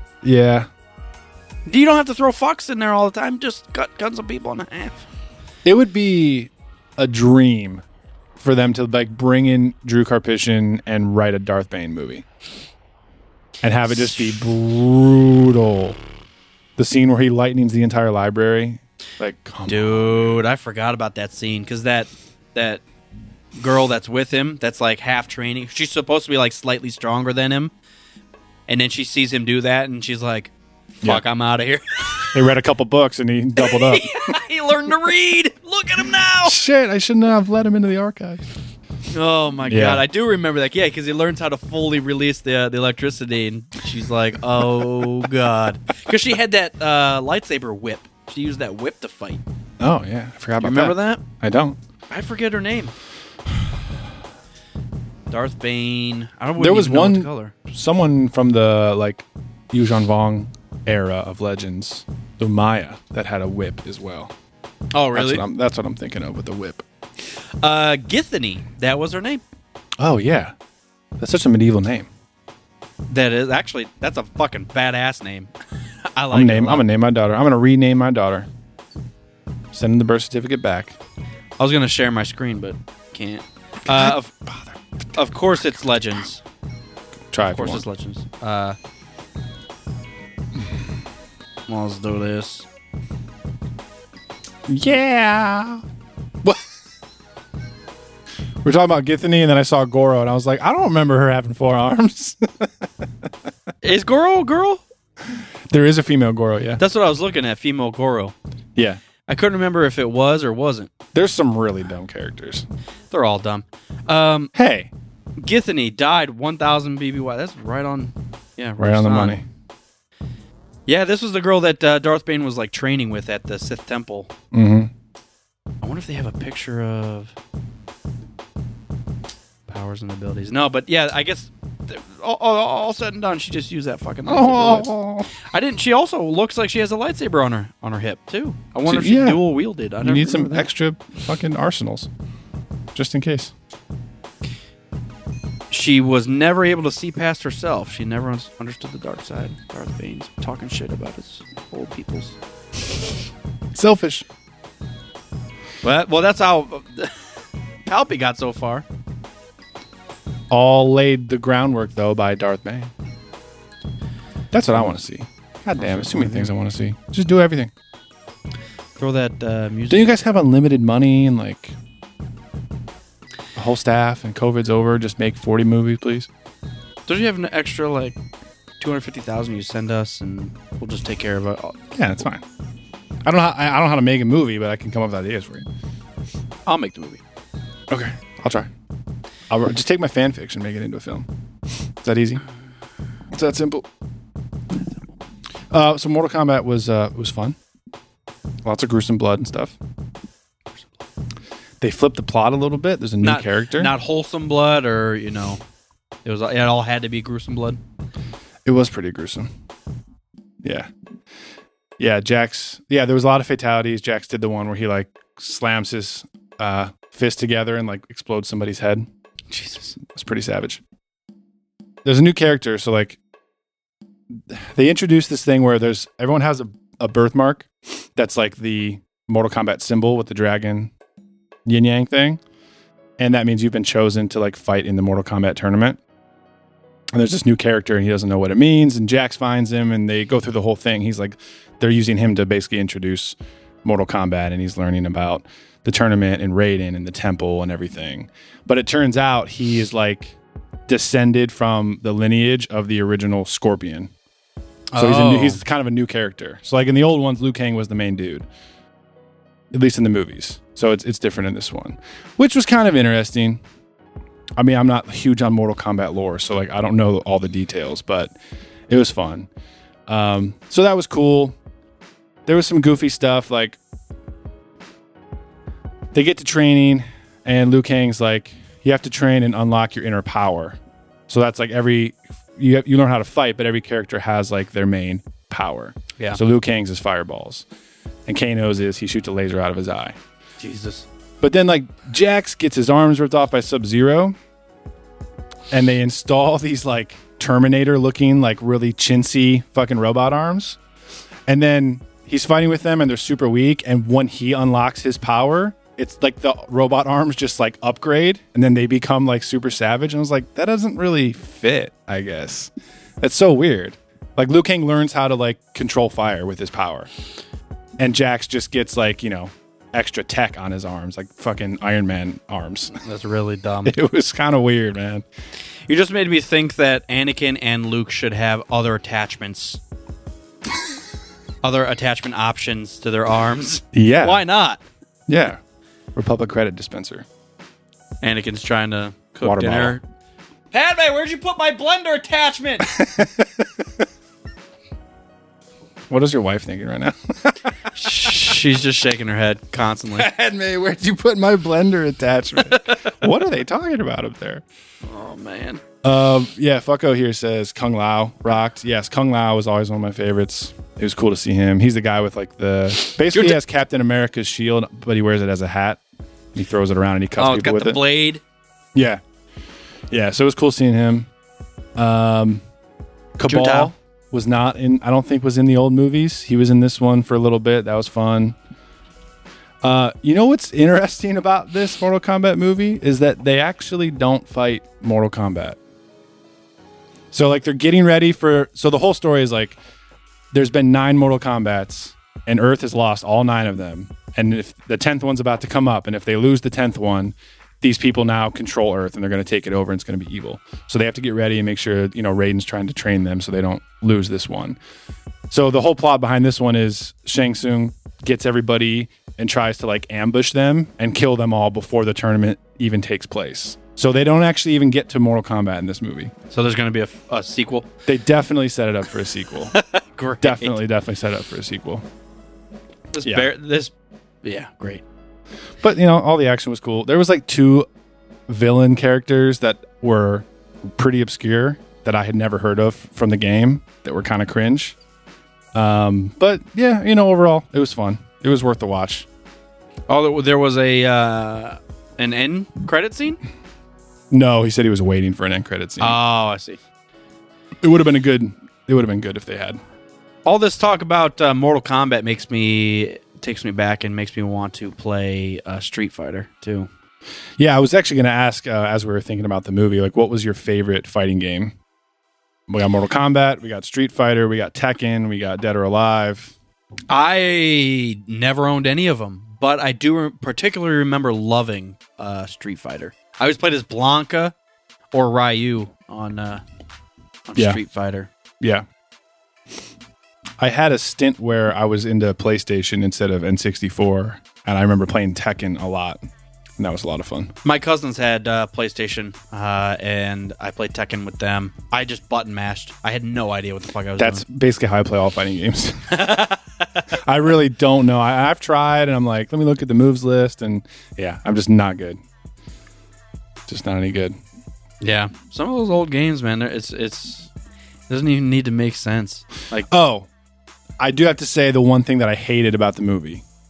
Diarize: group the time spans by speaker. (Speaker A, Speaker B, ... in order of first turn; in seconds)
Speaker A: 0.2-0.7, 5.7-7.8, 8.4-12.2, 13.6-16.0, 16.8-20.4, 32.3-34.3, 36.4-38.4, 39.7-40.0, 49.8-51.8, 56.6-64.3, 65.1-66.8, 70.0-70.5, 71.2-72.1, 76.3-78.5, 79.7-81.0, 83.9-84.8, 87.3-87.8, 94.7-95.8, 98.6-102.9, 105.3-106.8, 111.1-112.7, 114.5-114.9, 118.8-119.4, 124.5-124.9, 134.3-135.3, 138.9-139.4, 140.0-142.1, 142.9-143.5, 153.7-154.3, 160.5-162.9, 164.5-167.7, 169.9-171.8, 173.6-176.3, 181.9-182.4, 183.3-185.7, 187.9-188.7, 189.5-191.3, 192.0-192.4, 193.3-193.9, 195.7-197.6, 198.7-199.8, 201.8-203.9, 208.7-209.5, 210.6-210.9, 212.0-219.1, 220.0-220.8, 222.0-223.2, 224.5-230.9, 231.7-232.4, 233.2-236.0, 237.1-250.4, 250.9-254.1, 255.0-258.5, 259.7-263.6, 264.6-268.4, 268.9-269.5, 270.1-271.6, 272.5-273.8, 276.1-287.7, 288.3-290.2, 291.4-294.4, 295.7-300.8, 301.5-317.1, 318.0-323.0, 323.9-325.2, 333.9-334.4, 335.3-335.6, 336.1-337.3, 339.4-340.0, 342.9-343.9, 346.1-348.5, 350.2-354.6, 356.0-366.0, 366.5-368.0, 368.9-369.2, 370.1-371.3, 372.0-372.6, 373.4-378.6, 379.8-385.8, 387.3-389.8, 390.5-404.8, 405.5-416.3, 418.1-419.8, 420.4-422.1, 423.2-423.5, 425.8-427.9, 428.5-435.0, 435.7-439.3, 444.3-446.2, 447.8-449.8, 457.6-461.8, 462.7-466.5, 477.6-477.8, 480.6-486.2, 486.8-487.5, 494.2-496.2, 497.1-502.2, 503.7-504.4, 509.9-510.3, 511.0-513.4
Speaker B: 1.7-5.1, 19.7-22.8, 23.6-27.7, 28.7-30.5, 31.0-32.3, 33.6-36.6, 39.1-49.4, 50.6-51.2, 52.1-53.0, 55.3-57.5, 64.9-65.4, 67.6-69.4, 73.1-75.5, 76.1-76.8, 81.6-84.3, 85.2-86.4, 87.4-88.8, 91.7-92.7, 103.8-104.8, 106.8-108.3, 109.3-110.9, 113.1-114.5, 115.4-119.4, 120.9-124.3, 125.8-127.3, 129.7-134.9, 135.5-140.7, 145.7-152.4, 155.8-157.1, 157.9-158.8, 165.8-166.5, 169.0-170.2, 177.1-178.2, 178.8-181.8, 186.7-187.2, 203.2-205.6, 206.2-207.8, 219.5-220.0, 254.9-255.6, 290.6-291.1, 322.9-324.0, 325.9-329.8, 331.6-334.8, 338.2-340.0, 340.7-342.9, 347.9-350.3, 352.7-353.1, 355.1-355.8, 363.3-363.6, 367.4-368.4, 373.5-373.9, 416.5-417.9, 419.7-420.8, 423.1-423.9, 424.4-425.0, 440.1-443.4, 446.0-446.8, 450.4-456.9, 467.1-474.5, 475.1-476.6, 477.5-478.3, 487.6-494.4, 496.1-497.1, 505.0-507.5, 508.1-509.9